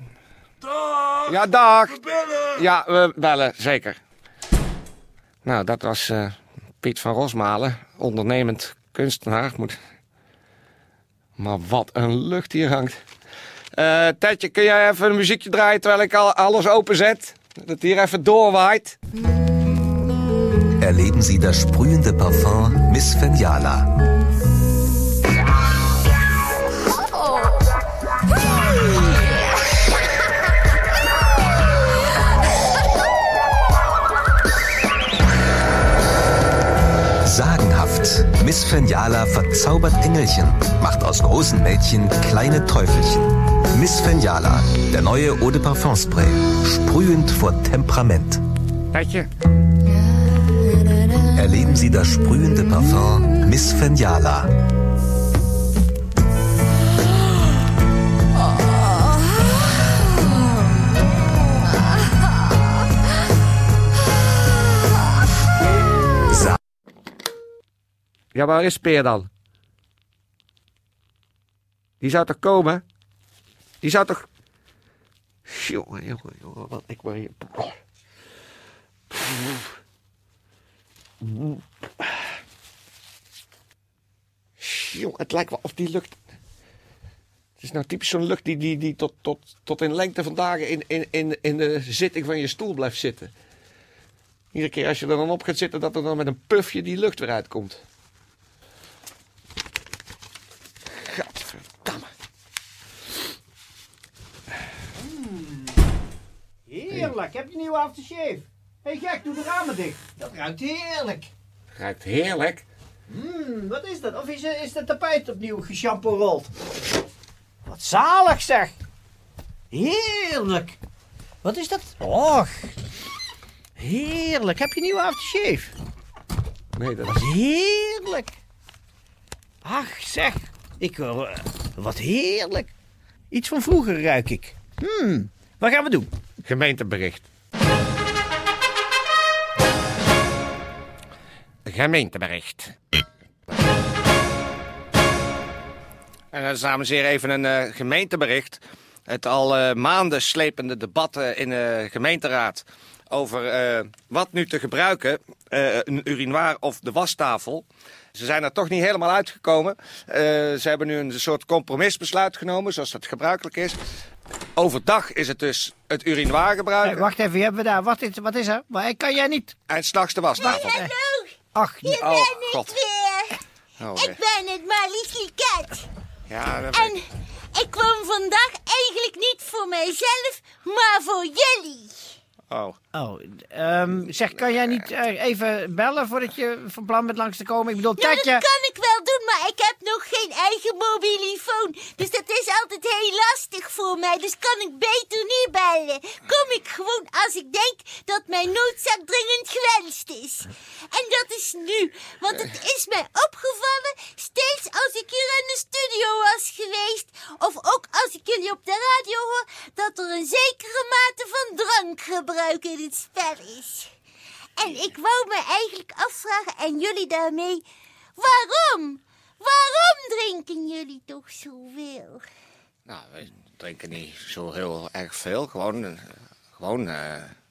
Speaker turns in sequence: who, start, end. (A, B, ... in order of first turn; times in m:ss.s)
0:00.6-0:02.7 A
0:01.3-0:02.0 B
0:02.6-0:04.0 B
0:05.4-0:09.8 B
0:11.4-0:13.0 B
0:13.8-0:19.0 B
0:20.8-0:23.9 C
0:37.2-0:48.4 C
0:48.9-0:49.3 B
0:51.3-0:54.5 C
1:08.3-1:09.3 B
1:12.0-1:12.8 B
1:13.8-1:14.3 B
1:15.5-1:17.8 B
1:19.1-1:19.7 B
1:21.2-1:21.6 B
1:24.6-1:26.2 B
1:27.6-1:33.3 B
1:34.5-1:37.8 B
1:41.1-1:42.1 B
1:45.0-1:45.8 D
1:46.7-1:51.3 D
1:51.8-1:52.7 B
1:53.1-1:56.5 D
1:57.6-1:58.8 D
1:59.7-2:00.8 D
2:01.4-2:02.6 D
2:03.8-2:05.7 D
2:06.8-2:07.2 B
2:07.1-2:08.3 D
2:09.6-2:12.7 D
2:13.3-2:16.1 D
2:16.4-2:17.3 B
2:21.7-2:22.8 B
2:26.3-2:43.8 B
2:44.6-2:47.1 B
2:46.8-2:49.6 D
2:49.7-2:50.8 B
2:50.4-2:50.9 D
2:50.9-2:51.3 E
2:51.5-2:52.2 D
2:51.8-2:53.4 E
2:52.0-2:52.8 B
2:53.8-2:54.2 B
2:54.0-2:55.9 E
2:56.3-2:57.0 B
2:56.7-3:02.2 E
3:02.5-3:02.8 B
3:02.9-3:08.5 D
3:08.0-3:33.9 E
3:34.6-3:37.6 E
3:38.2-3:42.2 E
3:42.9-3:47.3 B